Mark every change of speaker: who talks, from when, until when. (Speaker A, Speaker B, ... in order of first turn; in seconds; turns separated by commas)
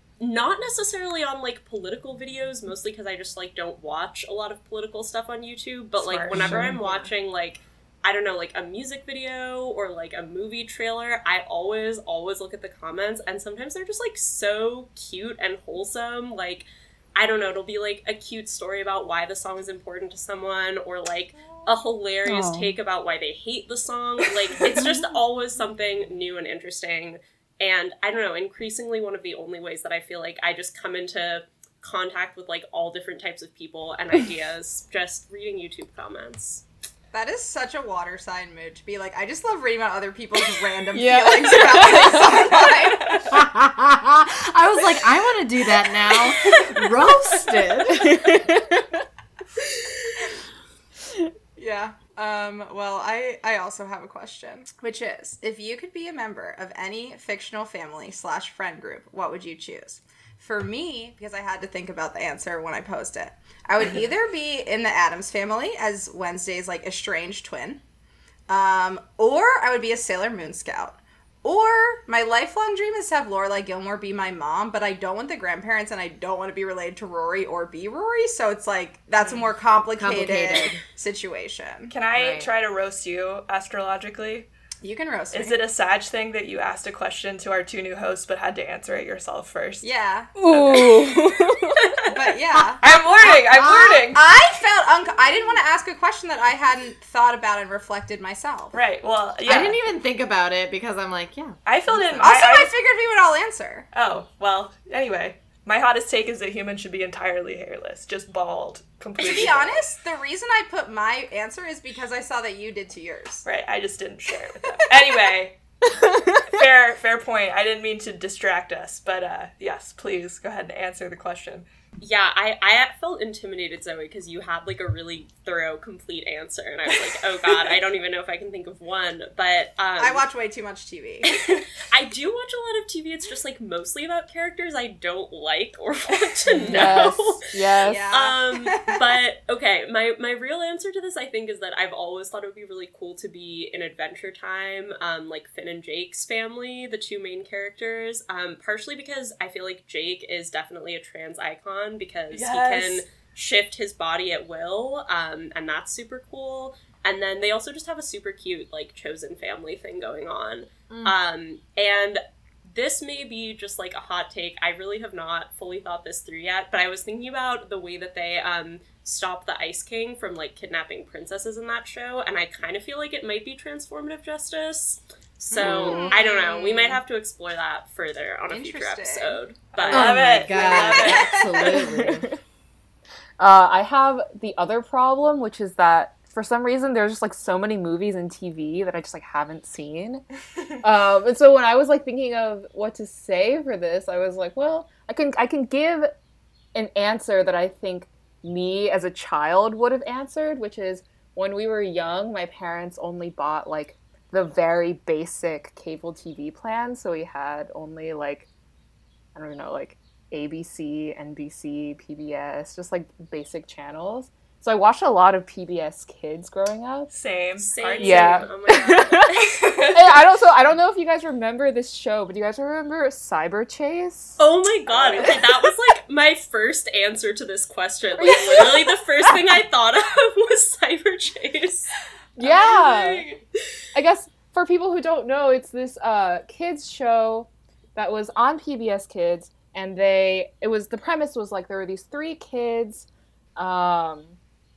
Speaker A: 0.2-36.6, Speaker B: 6.0-7.1, Speaker C: 22.2-22.7, Speaker D: 37.1-43.3, Speaker C: 41.0-42.7, Speaker E: 43.3-48.4, Speaker B: 46.4-46.8, Speaker C: 47.9-49.0, Speaker C: 49.6-50.1, Speaker D: 51.6-67.8, Speaker D: 68.5-81.9, Speaker E: 80.0-80.8, Speaker B: 81.9-84.5, Speaker E: 82.2-82.5, Speaker D: 84.8-85.6, Speaker B: 85.3-89.9, Speaker D: 89.8-90.3, Speaker C: 90.4-92.0, Speaker B: 90.5-91.0, Speaker D: 92.1-98.8, Speaker B: 92.8-94.3, Speaker B: 98.7-99.9, Speaker E: 99.5-102.2, Speaker B: 101.7-102.7, Speaker D: 102.2-103.9, Speaker B: 103.9-109.9, Speaker D: 109.2-113.5, Speaker B: 113.5-115.6, Speaker C: 115.9-116.4, Speaker B: 116.4-121.7, Speaker A: 122.0-130.2, Speaker D: 130.0-131.3, Speaker A: 131.3-137.4, Speaker E: 136.6-136.9, Speaker C: 136.7-138.1, Speaker D: 137.8-139.0, Speaker A: 138.1-180.1, Speaker B: 152.3-153.1, Speaker E: 160.9-161.2, Speaker D: 175.5-177.0, Speaker E: 175.6-175.9, Speaker D: 178.5-179.4, Speaker B: 179.7-181.5, Speaker E: 179.9-182.3, Speaker D: 179.9-182.0, Speaker C: 181.6-182.4, Speaker C: 183.4-190.2, Speaker C: 190.8-196.1, Speaker C: 196.7-208.5, Speaker C: 209.3-217.1, Speaker B: 217.1-218.5, Speaker A: 217.6-219.2, Speaker C: 218.0-224.4, Speaker B: 219.4-220.2, Speaker A: 224.4-231.9, Speaker B: 225.0-225.4, Speaker C: 228.2-228.9, Speaker C: 232.4-233.3, Speaker B: 232.4-233.4, Speaker C: 233.9-244.4